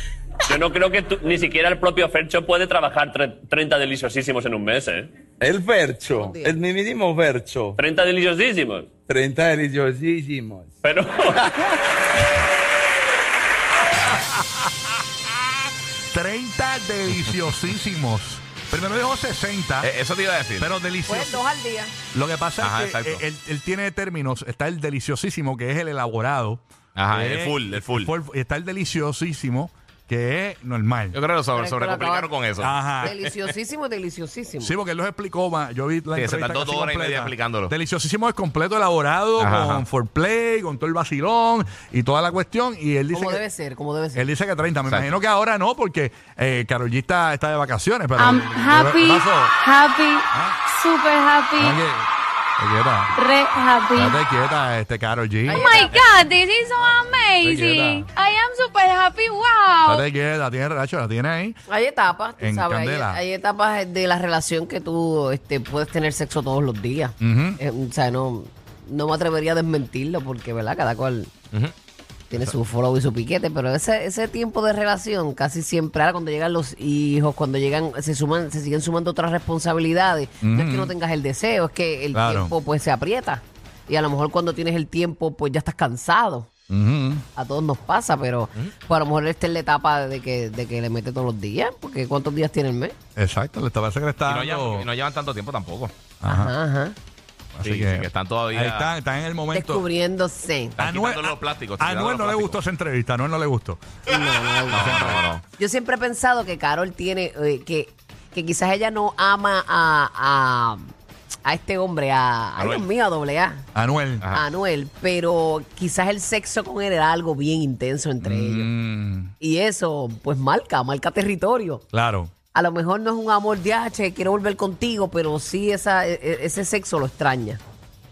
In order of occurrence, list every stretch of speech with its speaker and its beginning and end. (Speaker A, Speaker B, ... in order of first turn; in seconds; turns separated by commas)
Speaker A: 0.4-5.1, Speaker B: 5.4-7.8, Speaker C: 6.1-6.6, Speaker A: 7.8-8.9, Speaker B: 9.1-10.8, Speaker A: 10.8-11.6, Speaker D: 16.1-19.9, Speaker E: 19.8-20.7, Speaker D: 20.6-21.4, Speaker C: 21.1-21.9, Speaker D: 22.1-31.2, Speaker E: 22.6-23.2, Speaker E: 27.0-28.1, Speaker E: 31.1-33.4, Speaker C: 31.5-32.3, Speaker D: 32.6-33.2, Speaker C: 33.0-34.8, Speaker D: 34.6-43.4, Speaker E: 36.1-37.7, Speaker E: 39.4-39.9, Speaker C: 43.1-44.2, Speaker D: 44.1-49.5, Speaker F: 48.2-51.8, Speaker D: 50.3-50.6, Speaker D: 51.6-53.1, Speaker F: 53.2-54.2, Speaker D: 53.9-55.8, Speaker C: 55.5-56.3, Speaker F: 55.5-60.0, Speaker D: 57.4-58.1, Speaker D: 59.8-61.6, Speaker C: 61.7-71.3, Speaker D: 62.4-63.2, Speaker D: 67.2-67.6, Speaker C: 72.3-86.5, Speaker D: 80.4-80.9, Speaker D: 82.1-82.5, Speaker D: 86.7-87.2, Speaker C: 87.4-93.0, Speaker D: 93.2-94.9, Speaker E: 94.3-96.1, Speaker D: 96.2-96.5, Speaker C: 96.3-97.0, Speaker D: 97.5-99.8, Speaker E: 97.6-98.9, Speaker C: 99.5-100.8, Speaker E: 100.8-102.6, Speaker D: 100.8-103.8, Speaker C: 104.1-110.9, Speaker E: 104.7-105.5, Speaker D: 104.7-105.3, Speaker C: 111.5-113.7, Speaker E: 112.6-112.9, Speaker D: 113.7-114.3, Speaker C: 114.3-118.7, Speaker D: 118.2-119.3, Speaker C: 119.4-121.8, Speaker D: 121.9-122.3, Speaker C: 122.5-127.6